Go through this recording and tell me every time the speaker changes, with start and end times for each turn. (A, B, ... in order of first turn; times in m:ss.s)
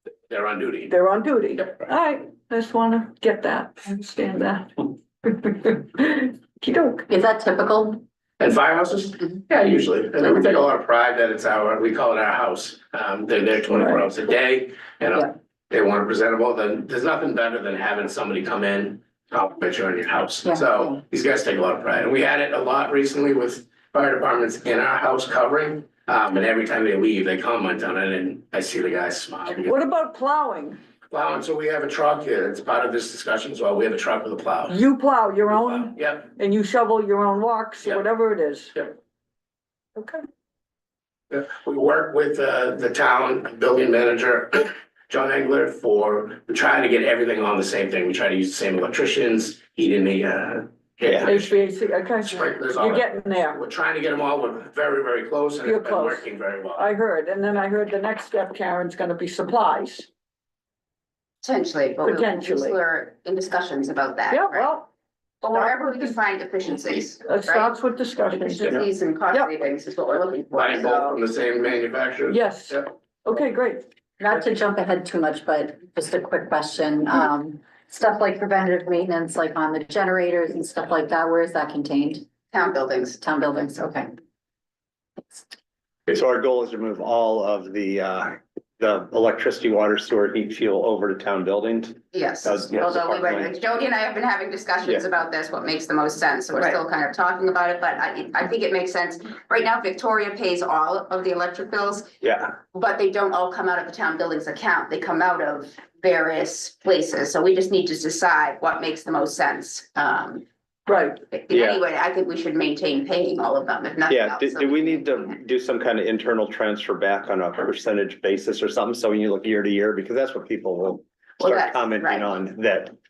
0:00.3-0:00.9 A
0:00.9-0:07.1 B
0:07.1-0:08.0 C
0:08.4-0:29.8 A
0:13.7-0:14.0 B
0:20.5-0:20.9 C
0:29.6-0:30.8 B
0:31.1-0:34.8 A
0:34.7-0:38.9 B
0:35.6-0:36.3 A
0:40.0-0:40.2 B
0:41.3-0:51.5 A
0:51.2-0:53.6 B
0:52.2-0:56.8 A
0:55.6-1:00.1 B
1:01.4-1:04.7 D
1:02.0-1:02.8 B
1:04.3-1:04.9 B
1:05.4-1:07.7 D
1:05.5-1:06.0 B
1:07.2-1:09.5 B
1:08.3-1:11.1 D
1:10.5-1:12.9 A
1:12.3-1:13.9 B
1:14.2-1:22.3 C
1:22.5-1:23.2 D
1:23.2-1:24.1 C
1:26.1-1:33.5 E
1:32.1-1:42.2 D
1:42.2-1:42.5 E
1:42.7-1:50.4 D
1:50.9-1:51.2 B
1:51.2-1:55.4 D
1:51.5-1:51.8 E
1:54.1-2:02.9 E
2:01.4-2:02.3 D